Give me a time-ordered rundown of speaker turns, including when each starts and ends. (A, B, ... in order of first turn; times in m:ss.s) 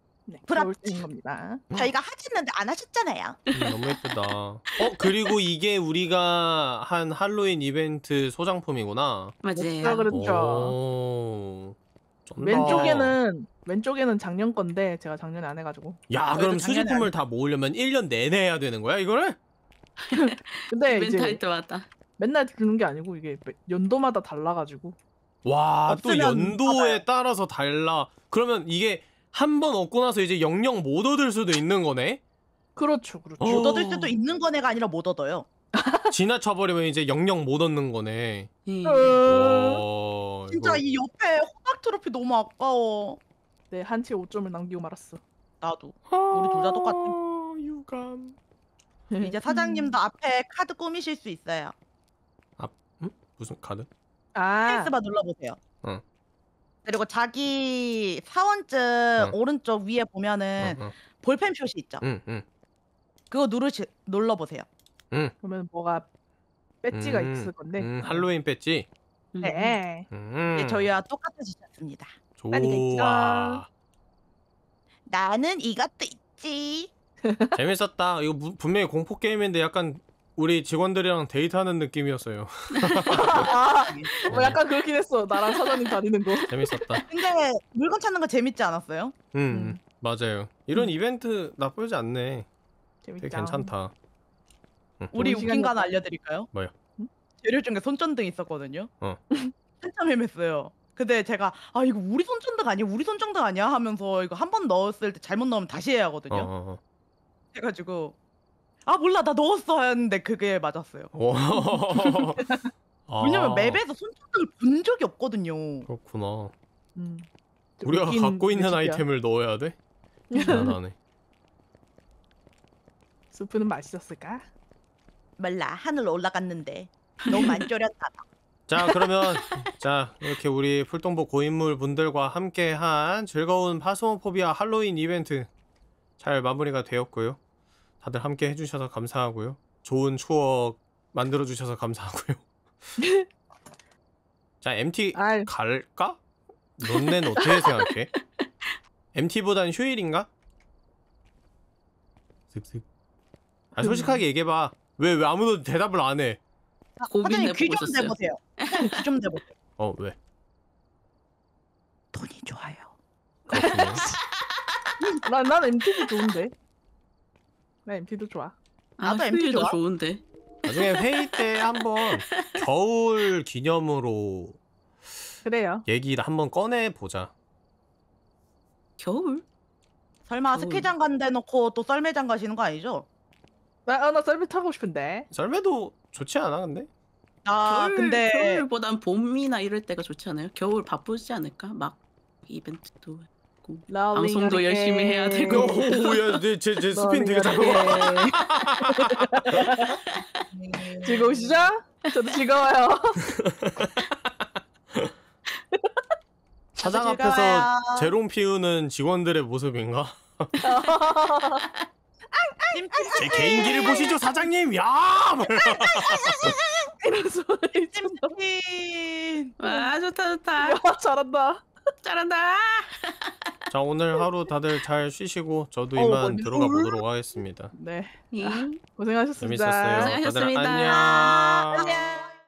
0:00.3-0:01.6 A
0:00.5-0:01.0 B
0:01.7-0:03.4 B
0:03.5-0:04.0 C
0:03.5-0:09.5 D
0:04.8-0:05.3 C
0:09.4-0:10.1 C
0:09.6-0:10.1 B
0:09.8-0:10.8 A
0:10.1-0:13.2 D
0:12.4-0:16.0 A
0:12.5-0:13.0 B
0:16.1-0:19.4 D
0:16.3-0:17.1 B
0:20.1-0:21.9 C
0:20.1-0:21.4 A
0:22.2-0:25.0 A
0:25.4-0:32.2 D
0:25.9-0:27.0 B
0:32.8-0:33.8 A
0:33.4-0:34.1 D
0:33.4-0:35.5 B
0:35.7-0:36.1 A
0:36.1-0:38.5 D
0:38.6-0:39.2 C
0:38.8-0:39.8 A
0:39.2-0:40.8 D
0:40.5-0:43.2 B
0:43.7-0:45.2 A
0:45.6-0:47.2 B
0:46.1-0:48.4 D
0:49.1-0:49.9 A
0:49.2-0:51.7 B
0:52.6-0:53.9 D
0:54.3-0:54.9 A
0:54.6-0:55.6 B
0:56.8-1:02.0 B
1:00.6-1:00.9 D
1:02.0-1:02.4 D
1:03.3-1:04.7 B
1:05.4-1:06.0 A
1:06.8-1:08.2 A
1:06.9-1:08.9 D
1:09.3-1:09.7 C
1:09.4-1:10.0 A
1:10.1-1:10.9 D
1:10.5-1:12.2 B
1:12.4-1:13.7 D
1:12.5-1:13.6 A
1:15.1-1:16.9 B
1:17.2-1:17.6 A
1:17.5-1:23.5 D
1:23.1-1:27.0 A
1:23.2-1:24.1 B
1:24.3-1:24.6 D
1:26.5-1:27.0 D
1:27.1-1:29.2 B
1:29.3-1:32.5 D
1:29.5-1:29.8 A
1:33.0-1:33.7 A
1:33.2-1:33.9 D
1:35.0-1:35.4 D
1:35.1-1:36.5 B
1:35.2-1:35.9 A
1:37.4-1:38.9 B
1:39.8-1:46.5 B
1:46.3-1:46.8 D
1:47.5-1:48.2 B
1:48.8-1:51.1 B
1:51.1-1:53.8 D
1:51.5-1:52.7 A
1:53.2-1:55.9 B
1:55.8-1:56.5 D
1:57.0-1:57.3 A
1:57.8-1:59.0 A
1:57.8-1:59.8 D
2:00.3-2:00.7 A
2:00.4-2:01.0 D
2:03.3-2:04.4 A
2:05.4-2:08.2 B
2:07.3-2:07.6 C
2:08.7-2:15.5 D
2:09.3-2:09.7 C
2:16.2-2:17.4 D
2:18.0-2:22.4 D
2:23.0-2:23.2 A
2:24.6-2:26.2 D
2:25.1-2:25.5 A
2:26.8-2:28.1 D
2:28.4-2:28.7 C
2:29.1-2:30.3 D
2:32.5-2:32.8 D
2:33.7-2:36.4 D
2:33.8-2:34.2 A
2:37.0-2:39.5 B
2:37.1-2:38.9 C
2:39.8-2:40.2 D
2:42.1-2:42.9 B
2:43.5-2:44.0 D
2:43.5-2:44.2 A
2:45.2-2:46.5 A
2:47.8-2:48.6 A
2:49.0-2:52.6 C
2:49.0-2:49.8 B
2:50.6-2:54.6 D
2:55.4-2:55.8 A
2:55.9-2:57.3 D
2:59.0-2:59.4 C
3:00.2-3:03.0 B
3:00.5-3:00.9 C
3:03.8-3:05.3 A
3:05.3-3:06.9 D
3:07.4-3:08.6 B
3:07.6-3:16.4 C
3:13.9-3:15.9 A
3:15.5-3:19.6 D
3:16.9-3:20.0 A
3:20.1-3:20.4 C
3:20.5-3:21.7 B
3:21.0-3:23.2 A
3:23.3-3:25.1 D
3:26.8-3:28.1 B
3:26.8-3:30.5 D
3:30.6-3:31.6 A
3:32.3-3:34.1 A
3:32.7-3:34.2 B
3:33.2-3:36.5 D
3:35.8-3:36.6 B
3:36.3-3:38.3 A
3:37.9-3:39.5 B
3:39.6-3:40.8 C
3:39.6-3:39.9 A
3:40.6-3:41.7 A
3:42.0-3:43.5 C
3:43.7-3:47.7 D
3:45.9-3:47.0 A
3:47.7-3:50.2 A
3:48.3-3:48.8 C
3:49.4-3:51.9 D
3:50.0-3:51.4 C
3:50.9-3:52.3 B